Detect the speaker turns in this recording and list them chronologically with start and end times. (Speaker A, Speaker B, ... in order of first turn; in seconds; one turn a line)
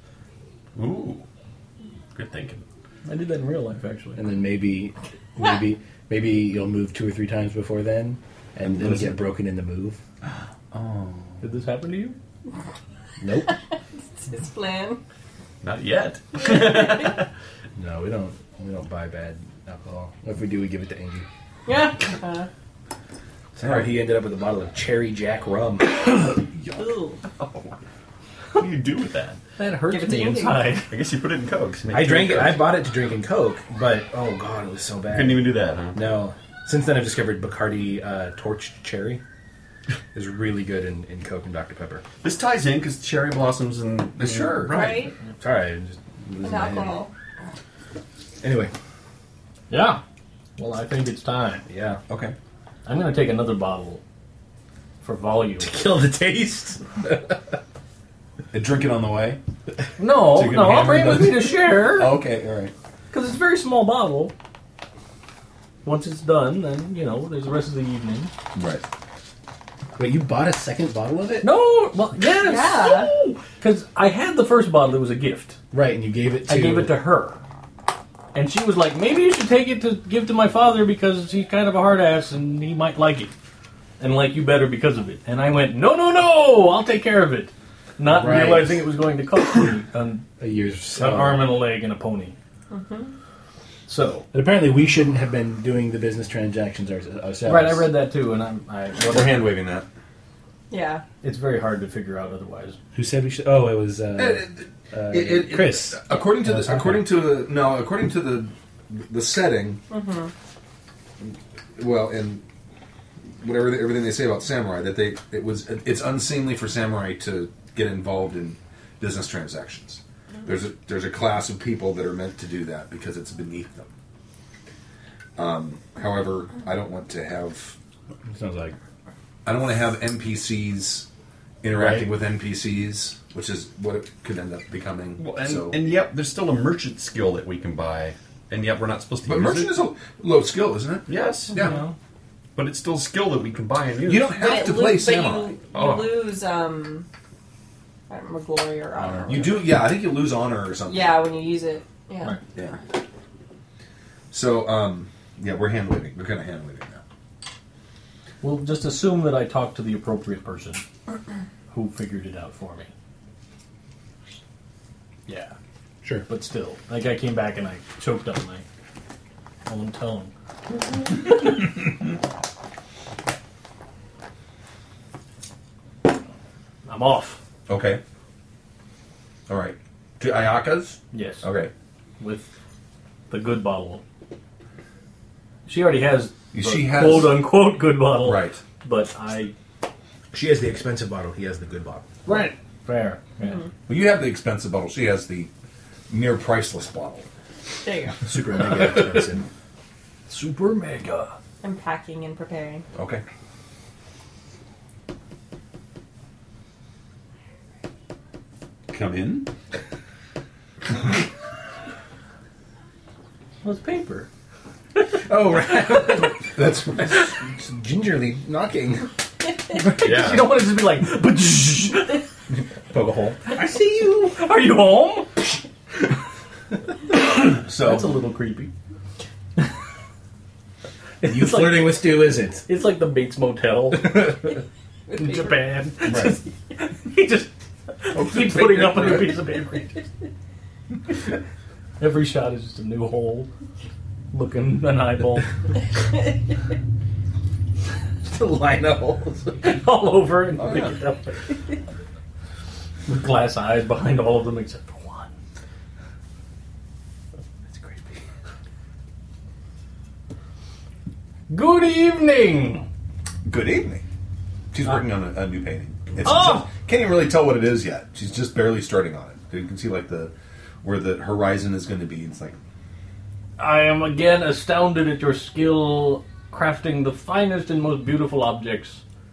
Speaker A: 0.8-1.2
Speaker A: 2.1-2.6
Speaker B: 3.0-4.2
Speaker C: 4.2-10.0
Speaker D: 8.6-9.2
Speaker D: 10.7-11.4
Speaker B: 11.4-12.2
Speaker C: 13.2-13.5
Speaker E: 14.1-15.0
Speaker A: 15.6-17.3
Speaker E: 16.4-17.1
Speaker C: 17.8-21.2
Speaker E: 21.6-22.5
Speaker C: 23.6-26.2
Speaker D: 23.6-23.9
Speaker E: 26.8-27.2
Speaker A: 27.4-27.8
Speaker A: 28.5-29.4
Speaker B: 29.6-30.9
Speaker E: 29.8-30.8
Speaker A: 30.9-32.7
Speaker C: 31.9-39.2
Speaker A: 35.1-36.2
Speaker C: 40.1-42.0
Speaker A: 42.2-45.0
Speaker D: 44.2-44.9
Speaker E: 44.7-45.1
Speaker C: 45.4-47.0
Speaker E: 46.4-47.1
Speaker C: 48.4-48.7
Speaker B: 49.7-50.0
Speaker B: 50.6-51.6
Speaker C: 51.7-52.0
Speaker D: 52.1-52.3
Speaker B: 52.9-54.0
Speaker B: 55.0-55.7
Speaker C: 55.6-57.4
Speaker D: 58.5-59.4
Speaker B: 60.0-62.2
Speaker D: 60.2-62.7
Speaker B: 63.1-64.3
Speaker B: 65.8-68.3
Speaker D: 68.5-68.8
Speaker C: 69.9-71.5
Speaker B: 71.4-75.6
Speaker E: 72.3-73.2
Speaker C: 75.7-77.0
Speaker B: 76.5-77.4
Speaker B: 78.3-83.3
Speaker B: 84.0-90.3
Speaker C: 88.0-88.9
Speaker C: 90.4-91.6
Speaker B: 90.9-92.3
Speaker E: 92.7-93.1
Speaker B: 93.9-94.3
Speaker C: 94.3-97.9
Speaker B: 97.5-99.5
Speaker D: 99.1-99.8
Speaker E: 100.7-101.0
Speaker B: 101.2-102.8
Speaker C: 102.9-107.1
Speaker D: 104.2-109.8
Speaker E: 109.9-110.3
Speaker D: 111.2-112.4
Speaker D: 113.4-123.9
Speaker D: 125.3-127.8
Speaker C: 128.2-128.8
Speaker D: 129.4-131.1
Speaker D: 131.6-135.8
Speaker A: 131.7-132.1
Speaker A: 135.2-139.7
Speaker D: 139.2-141.8
Speaker A: 141.1-141.6
Speaker B: 141.5-141.9
Speaker A: 142.5-144.4
Speaker D: 144.1-145.6
Speaker E: 144.3-147.1
Speaker A: 145.7-146.2
Speaker E: 148.1-149.8
Speaker D: 149.2-151.4
Speaker E: 150.9-152.4
Speaker D: 152.5-152.8
Speaker D: 154.3-157.0
Speaker B: 158.4-160.8
Speaker B: 161.7-162.9
Speaker B: 165.3-165.6
Speaker B: 166.3-168.6
Speaker B: 169.7-170.3
Speaker B: 176.8-177.4
Speaker D: 177.7-178.0
Speaker D: 179.5-181.7
Speaker B: 181.1-181.5
Speaker B: 182.2-182.5
Speaker B: 183.3-184.0
Speaker B: 185.7-189.5
Speaker D: 186.5-187.5
Speaker D: 188.2-188.6
Speaker C: 190.3-192.1
Speaker B: 192.2-193.6
Speaker D: 193.9-195.5
Speaker D: 196.1-197.3
Speaker E: 197.8-198.2
Speaker C: 198.2-199.4
Speaker B: 200.3-201.3
Speaker E: 201.6-202.8
Speaker D: 202.9-203.2
Speaker D: 208.9-209.5
Speaker B: 213.6-214.3
Speaker C: 215.2-216.5
Speaker D: 216.5-217.3
Speaker C: 217.0-219.1
Speaker B: 219.7-222.2
Speaker A: 220.0-220.6
Speaker C: 222.9-223.4
Speaker B: 223.5-225.5
Speaker B: 227.4-228.7
Speaker D: 227.5-228.1
Speaker C: 231.2-232.7
Speaker B: 231.2-240.0
Speaker C: 234.0-234.3
Speaker E: 235.1-235.6
Speaker D: 236.0-236.3
Speaker D: 238.1-239.2
Speaker B: 242.0-243.5
Speaker B: 244.3-245.5
Speaker C: 248.2-249.7
Speaker B: 249.6-251.5
Speaker D: 250.6-250.9
Speaker B: 253.1-255.3
Speaker C: 257.7-258.2
Speaker B: 261.5-262.9
Speaker D: 263.4-264.0
Speaker D: 264.7-270.3
Speaker B: 266.2-266.7
Speaker D: 270.8-272.6
Speaker B: 273.6-279.0